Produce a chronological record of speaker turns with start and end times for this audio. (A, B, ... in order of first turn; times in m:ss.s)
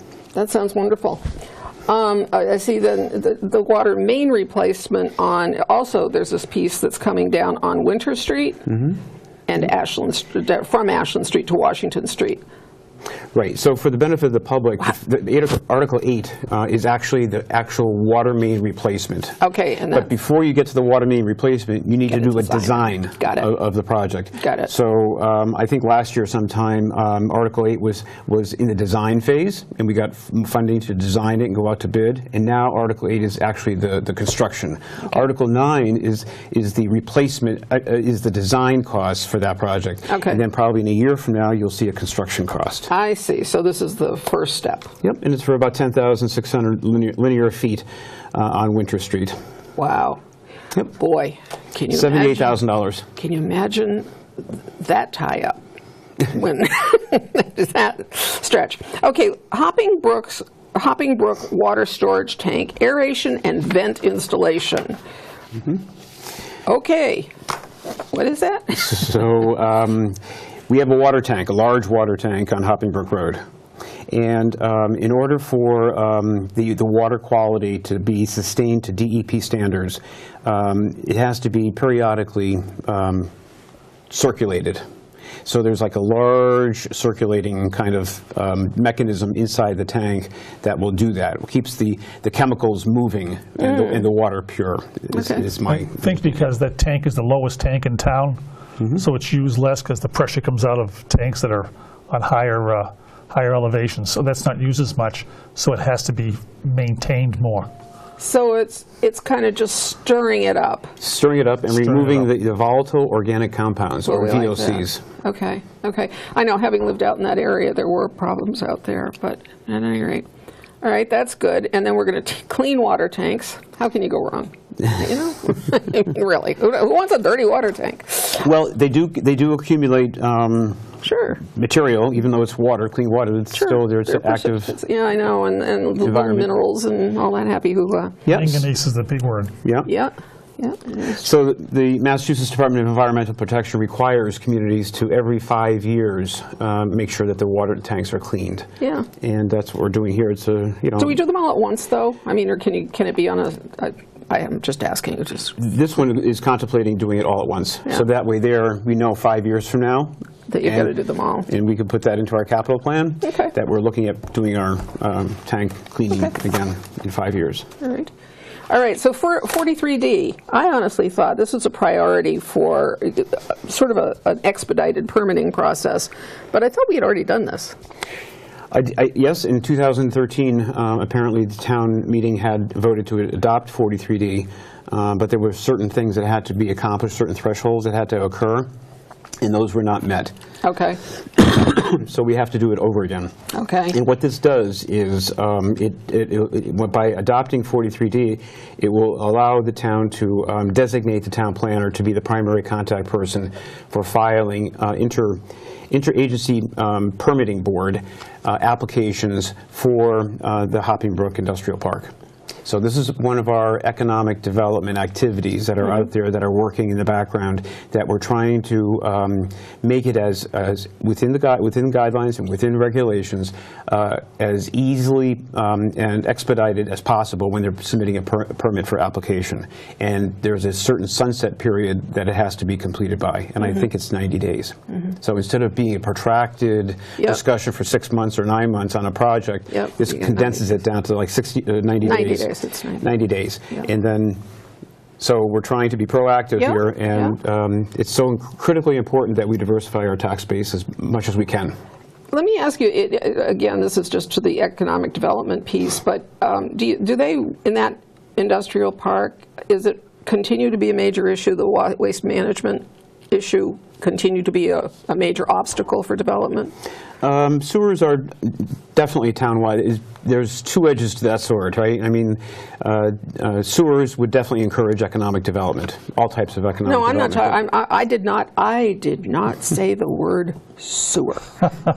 0:00.3-0:01.2 A
0:01.9-0:08.8 A
0:09.5-0:12.4 A
0:13.3-0:42.9 B
0:19.4-0:20.1 A
0:22.1-0:23.5 A
0:24.4-0:24.7 A
0:40.1-0:40.4 A
0:42.9-0:44.9 A
0:45.0-0:49.4 B
0:49.8-0:50.2 A
0:50.8-0:52.6 A
0:51.9-0:53.1 B
0:53.2-0:55.6 A
0:56.2-1:05.0 A
1:06.7-1:07.4 A
1:08.0-1:09.0 A
1:08.8-1:13.4 B
1:14.1-1:23.3 B
1:24.1-1:24.8 B
1:25.4-1:36.3 B
1:35.1-1:35.5 A
1:35.7-1:47.7 C
1:48.2-1:51.0 A
1:51.0-1:55.0 B
1:51.8-1:52.3 C
1:54.0-2:00.3 A
2:00.8-2:08.5 A
2:08.4-2:10.9 B
2:11.0-2:11.4 A
2:11.4-2:14.7 B
2:13.5-2:18.3 A
2:16.0-2:16.5 B
2:18.3-2:18.6 B
2:18.3-2:19.5 C
2:19.6-2:19.9 B
2:19.9-2:21.2 A
2:21.0-2:31.2 B
2:28.8-2:29.1 A
2:31.0-2:35.6 A
2:35.6-2:40.9 B
2:40.5-2:41.5 A
2:41.5-2:47.7 B
2:43.2-2:43.5 A
2:47.8-2:48.1 A
2:48.7-2:57.8 A
2:58.7-3:08.7 B
3:09.4-3:10.3 B
3:10.6-3:11.0 A
3:11.4-3:13.3 B
3:13.5-3:14.0 A
3:13.9-3:25.4 B
3:25.9-3:32.1 B
3:32.6-4:04.4 B
3:59.7-4:00.6 A
4:02.0-4:03.1 A
4:05.2-4:11.8 B
4:06.6-4:07.4 A
4:12.3-4:26.8 A
4:27.2-4:37.6 B
4:36.8-4:41.7 A